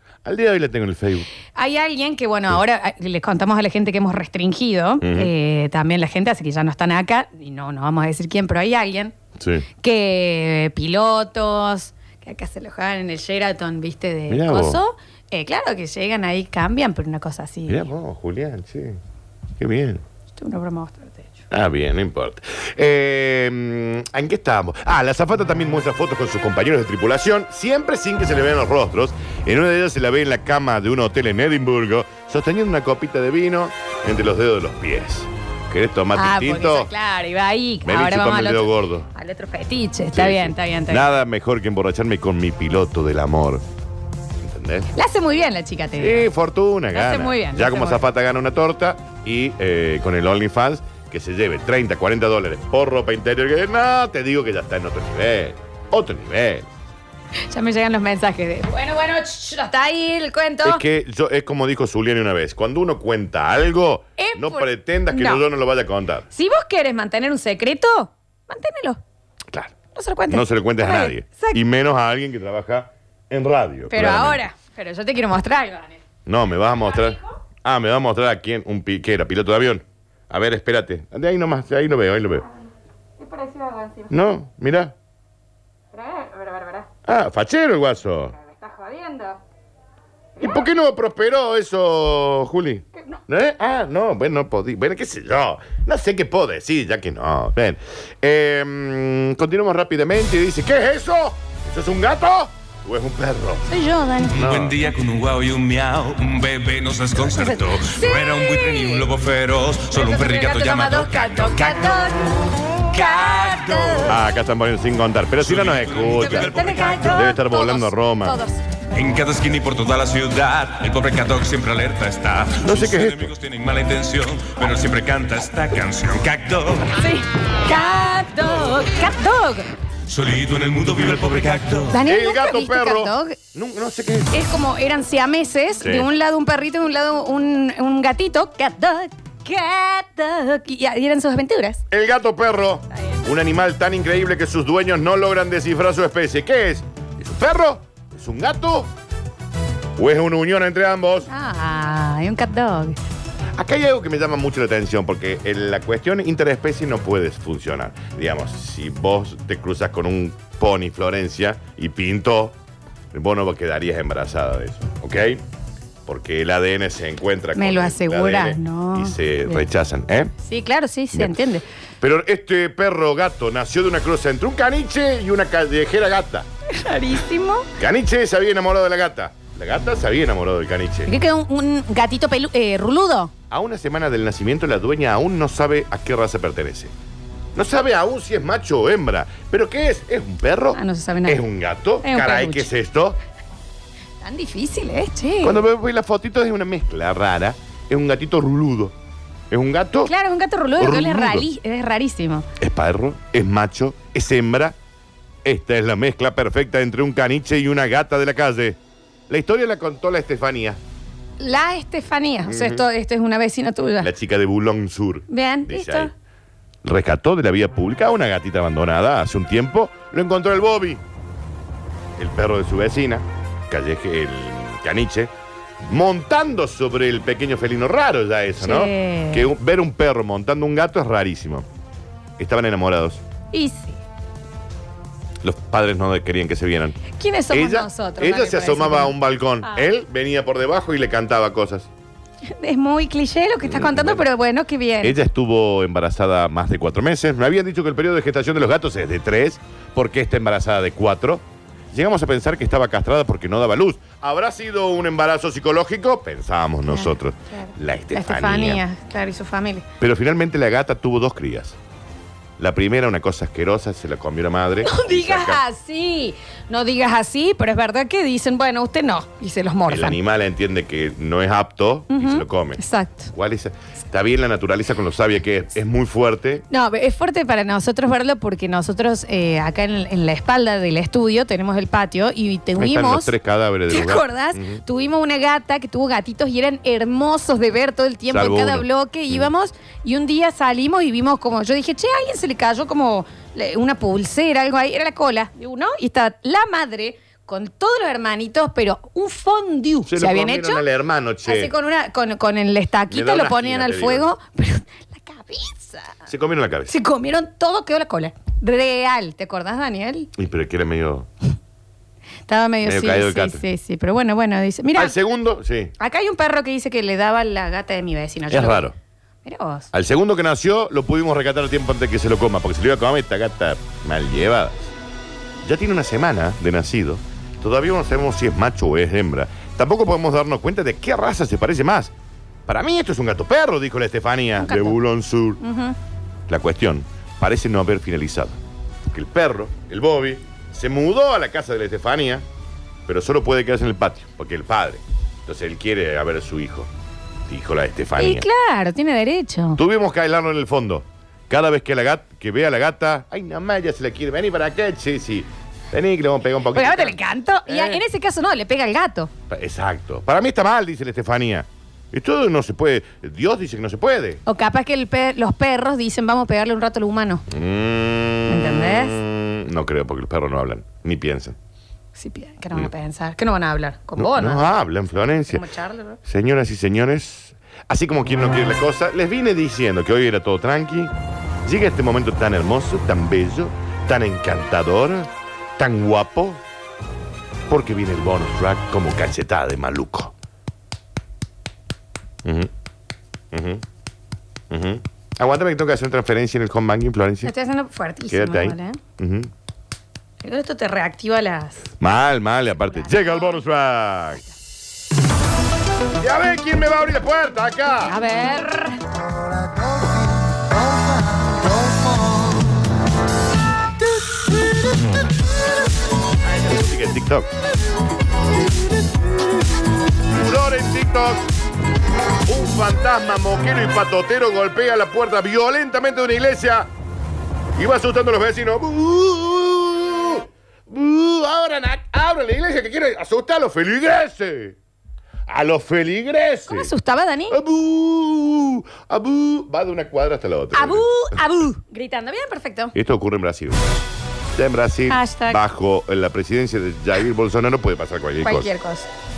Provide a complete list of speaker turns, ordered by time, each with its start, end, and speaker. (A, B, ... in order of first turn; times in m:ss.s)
0:00.2-0:01.3 A
0:01.5-0:09.1 B
0:05.0-0:05.3 A
0:09.4-0:09.7 A
0:09.8-0:17.8 B
0:14.3-0:14.8 A
0:17.7-0:19.0 A
0:19.6-0:20.0 A
0:20.3-0:21.4 B
0:21.5-0:36.9 A
0:36.1-0:41.1 B
0:37.8-0:39.1 A
0:40.1-0:43.6 A
0:44.4-0:44.9 A
0:44.9-0:46.3 B
0:46.0-0:56.7 A
0:46.9-0:48.0 B
0:57.5-1:00.8 B
1:00.6-1:06.3 A
1:04.2-1:05.4 B
1:06.3-1:09.0 B
1:09.9-1:11.6 B
1:10.3-1:14.4 A
1:13.9-1:16.0 B
1:16.2-1:22.4 A
1:16.9-1:17.2 B
1:23.2-1:24.1 B
1:24.1-1:24.9 A
1:25.9-1:26.9 B
1:27.0-1:28.3 A
1:28.4-1:29.4 B
1:30.4-1:43.6 A
1:43.7-1:44.4 B
1:44.3-1:52.2 C
1:44.3-1:44.8 A
1:47.2-1:49.1 B
1:49.9-1:52.4 B
1:52.9-1:54.2 B
1:52.9-1:54.2 C
1:54.0-1:58.4 A
1:55.4-1:57.2 C
1:56.0-1:58.6 B
1:58.9-2:06.9 C
2:02.6-2:03.3 A
2:06.9-2:09.7 B
2:10.1-2:12.0 C
2:11.9-2:13.4 B
2:12.0-2:14.3 A
2:14.3-2:21.8 B
2:15.8-2:16.1 A
2:21.9-2:28.9 A
2:22.9-2:23.3 B
2:30.0-2:31.3 A
2:31.3-2:33.0 B
2:33.6-2:42.5 A
2:43.1-2:45.4 A
2:46.0-2:50.3 A
2:47.6-2:49.6 B
2:50.4-2:51.6 B
2:51.1-2:56.5 A
2:56.7-2:57.7 B
2:57.8-3:01.1 A
3:01.0-3:03.3 B
3:03.5-3:06.9 A
3:07.5-3:13.2 A
3:10.7-3:11.4 B
3:12.0-3:12.7 B
3:14.2-3:15.6 B
3:15.4-3:19.0 A
3:19.5-3:20.1 A
3:20.0-3:22.5 B
3:20.8-3:21.5 A
3:22.6-3:24.8 A
3:25.4-3:28.8 A
3:29.3-3:30.8 A
3:31.4-3:34.1 B
3:32.4-3:32.8 A
3:34.0-3:36.1 A
3:35.3-3:36.1 B
3:36.8-3:41.0 A
3:42.2-3:45.3 A
3:45.8-3:51.6 A
3:48.6-3:49.5 B
3:52.4-3:53.2 A
3:53.5-3:54.0 B
3:55.4-3:57.0 A
3:57.1-3:59.8 B
3:57.5-4:01.9 A
4:02.5-4:05.2 B
4:03.6-4:04.2 A
4:05.0-4:18.8 A
4:16.9-4:19.8 B
4:20.0-4:21.8 A
4:22.6-4:25.6 A
4:24.8-4:30.2 B
4:29.9-4:32.8 A
4:32.1-4:33.3 B
4:33.3-4:36.6 A
4:36.7-4:43.3 B
4:42.8-4:44.8 A
4:43.9-5:00.8 B
4:48.3-4:49.4 A
5:00.1-5:01.7 A
5:01.4-5:06.2 B
5:03.1-5:04.3 A
5:06.3-5:06.9 A
5:06.9-5:10.3 B
5:10.4-5:11.3 A
5:12.5-5:15.2 B
5:12.8-5:13.6 A
5:14.9-5:15.9 A
5:16.0-5:18.9 B
5:18.5-5:18.9 A
5:19.4-5:19.9 B
5:19.9-5:24.9 A
5:25.6-5:32.1 A
5:32.7-5:35.6 A
5:34.6-5:35.0 B
5:35.6-5:36.0 B
5:36.5-5:38.6 A
5:39.1-5:42.4 A
5:43.1-5:46.9 A
5:47.5-5:48.5 A
5:48.2-5:49.8 B
5:49.8-5:58.0 A
5:56.7-5:59.3 B
5:59.5-6:04.4 A
6:04.4-6:07.4 B
6:07.5-6:11.6 A
6:08.5-6:09.2 B
6:12.1-6:14.7 B
6:14.2-6:15.6 A
6:15.5-6:16.2 B
6:16.2-6:21.1 A
6:21.6-6:26.6 A
6:27.7-6:30.3 A
6:32.4-6:32.7 A
6:33.5-6:33.8 A
6:34.7-6:37.5 A
6:37.4-6:39.0 B
6:38.3-6:39.5 A
6:40.4-6:41.9 B
6:42.0-6:44.4 A
6:42.8-6:43.6 B
6:46.2-6:48.1 A
6:48.0-6:49.0 B
6:56.4-6:57.5 A
7:00.3-7:01.4 A
7:02.5-7:06.9 A
7:07.8-7:14.8 A
7:15.5-7:16.9 A
7:16.7-7:17.6 B
7:17.5-7:21.1 A
7:20.7-7:22.9 B
7:22.9-7:23.9 A
7:24.6-7:28.7 A
7:25.1-7:25.6 B
7:28.4-7:29.1 B